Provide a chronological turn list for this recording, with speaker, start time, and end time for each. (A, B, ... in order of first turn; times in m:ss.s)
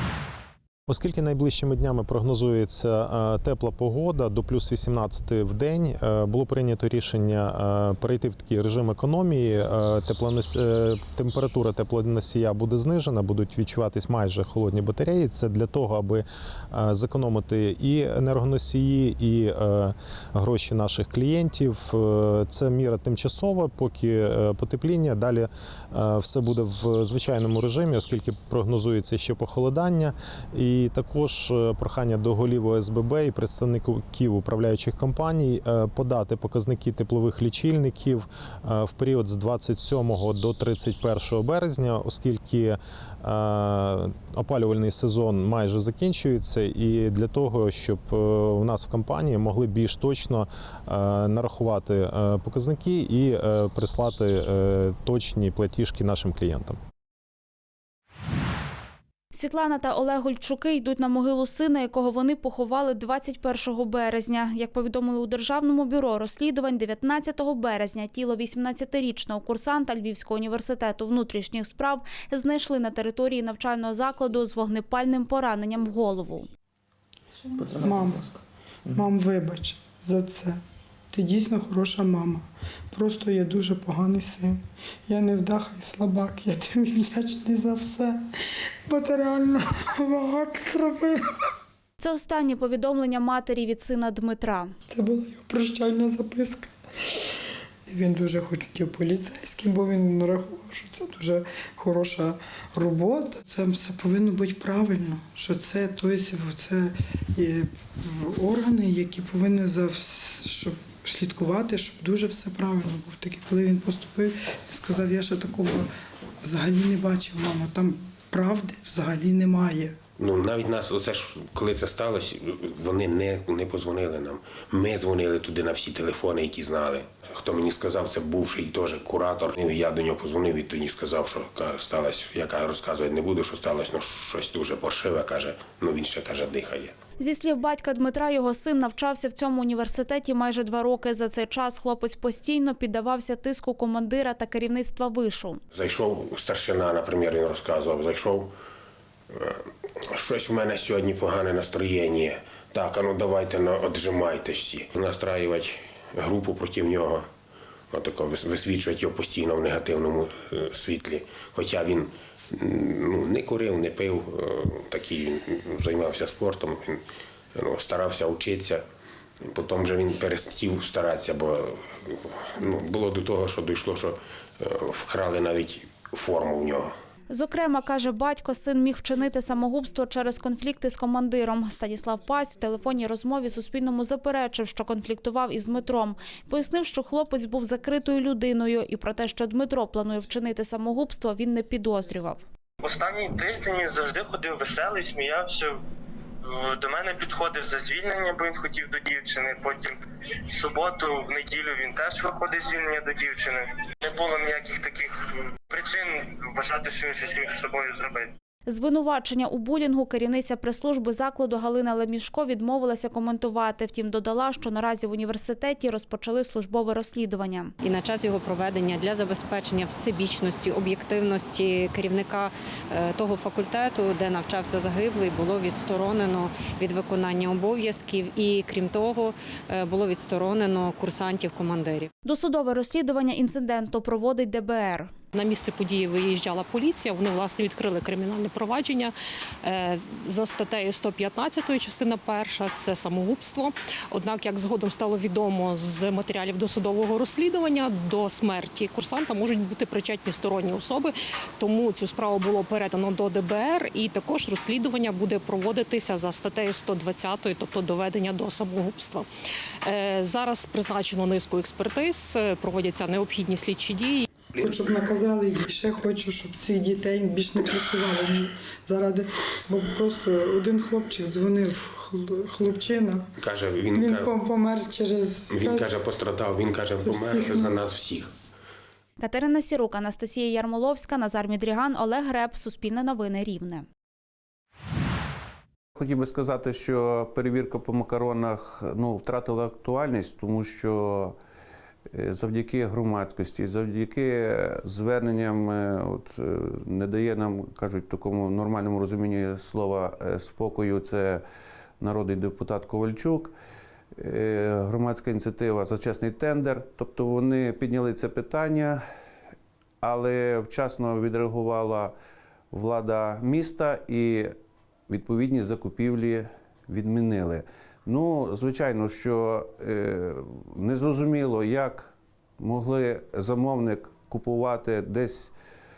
0:00.9-0:56.8 A
0:59.3-1:16.5 B
1:17.8-1:18.2 C
1:18.9-1:20.6 C
1:21.1-1:28.2 C
1:28.9-1:31.2 C
1:32.0-1:34.7 B
1:34.9-1:36.7 C
1:37.9-1:55.9 C
1:56.4-2:00.0 C
2:00.2-2:16.9 D
2:17.2-2:25.6 B
2:25.7-2:28.5 D
2:29.3-2:37.3 D
2:37.9-2:47.0 D
2:47.5-2:48.8 D
2:49.4-2:56.9 D
2:57.3-3:12.4 B
3:12.8-3:15.7 E
3:16.5-3:19.9 E
3:20.5-3:25.1 E
3:25.7-3:28.3 E
3:28.7-3:37.7 B
3:37.8-3:52.1 F
3:52.2-3:55.1 B
3:55.3-4:19.2 G
4:19.8-4:24.2 G
4:24.6-4:33.2 C
4:33.4-4:34.3 D
4:33.9-4:35.8 C
4:35.5-4:38.3 D
4:37.0-4:37.8 C
4:39.2-4:43.8 B
4:46.0-4:51.3 H
4:52.1-5:01.4 H
5:02.0-5:03.5 H
5:04.2-5:09.0 H
5:10.0-5:12.1 H
5:12.7-5:14.5 H
5:15.1-5:25.5 H